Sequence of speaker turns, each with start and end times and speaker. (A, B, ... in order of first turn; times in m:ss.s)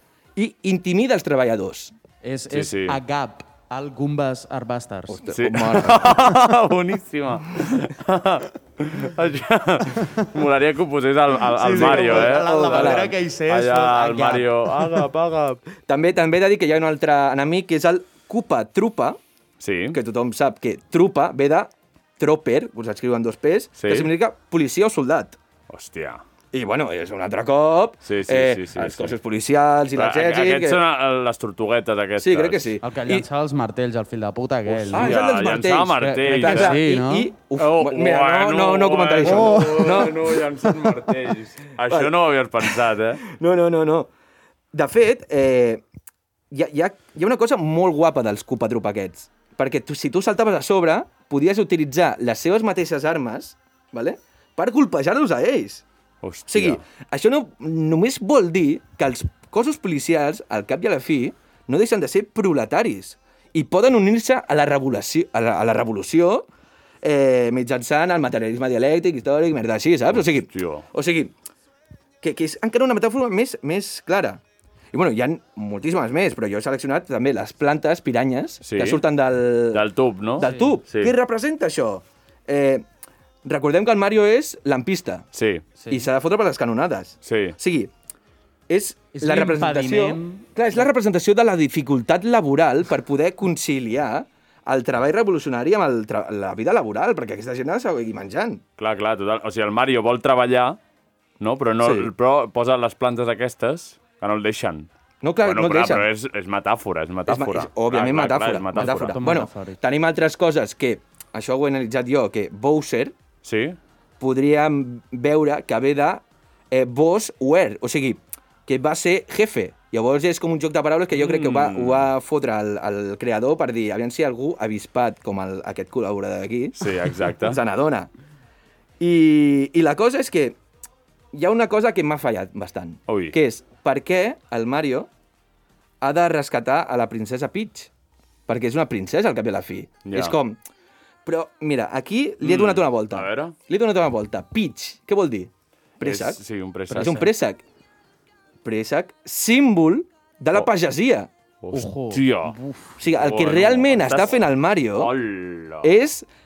0:00.4-0:01.9 A
0:02.2-0:05.2 B
0:02.5-0:03.0 C
0:05.1-0:06.3 A
0:05.3-0:15.6 C
0:11.5-0:15.0 B
0:11.7-0:13.2 A
0:15.9-0:19.2 A
0:19.6-0:20.0 C
0:19.9-0:25.4 A
0:23.8-0:24.1 C
0:25.7-0:26.2 C
0:26.5-0:30.8 A
0:28.0-0:29.2 C
0:30.0-0:32.7 C
0:32.2-0:33.3 A
0:32.8-0:35.2 B
0:34.8-0:36.8 C
0:34.9-0:41.0 A
0:36.0-0:37.3 B
0:37.6-0:43.2 C
0:39.2-0:40.1 B
0:42.6-0:44.1 A
0:44.7-0:45.8 A
0:46.5-0:55.8 A
0:56.2-0:56.8 C
0:56.5-1:06.5 A
1:07.0-1:11.3 A
1:10.1-1:10.9 C
1:12.2-1:14.4 A
1:14.9-1:19.8 A
1:18.6-1:19.0 C
1:19.7-1:21.1 C
1:20.4-1:22.8 A
1:20.4-1:20.7 B
1:23.4-1:25.3 A
1:25.3-1:25.6 C
1:25.8-1:26.1 B
1:25.9-1:27.9 A
1:27.2-1:27.6 C
1:28.7-1:38.6 A
1:29.1-1:30.5 B
1:38.8-1:40.8 C
1:41.4-1:44.9 C
1:41.8-1:42.1 A
1:45.2-1:46.1 A
1:45.4-1:49.2 C
1:47.3-1:53.2 A
1:48.8-1:49.8 B
1:53.4-1:53.8 C
1:54.2-2:08.1 A
2:01.1-2:02.1 C
2:06.8-2:07.6 C
2:09.0-2:10.6 A
2:11.3-2:15.1 A
2:13.1-2:13.4 C
2:16.0-2:17.9 A
2:18.5-2:20.6 A
2:20.0-2:20.4 C
2:21.2-2:26.4 A
2:22.4-2:23.6 C
2:26.0-2:27.3 C
2:26.9-2:27.3 B
2:27.0-2:27.6 A
2:28.6-2:31.3 A
2:31.6-2:32.6 C
2:31.7-2:33.0 B
2:33.0-2:35.1 A
2:33.2-2:35.9 C
2:35.8-2:36.3 A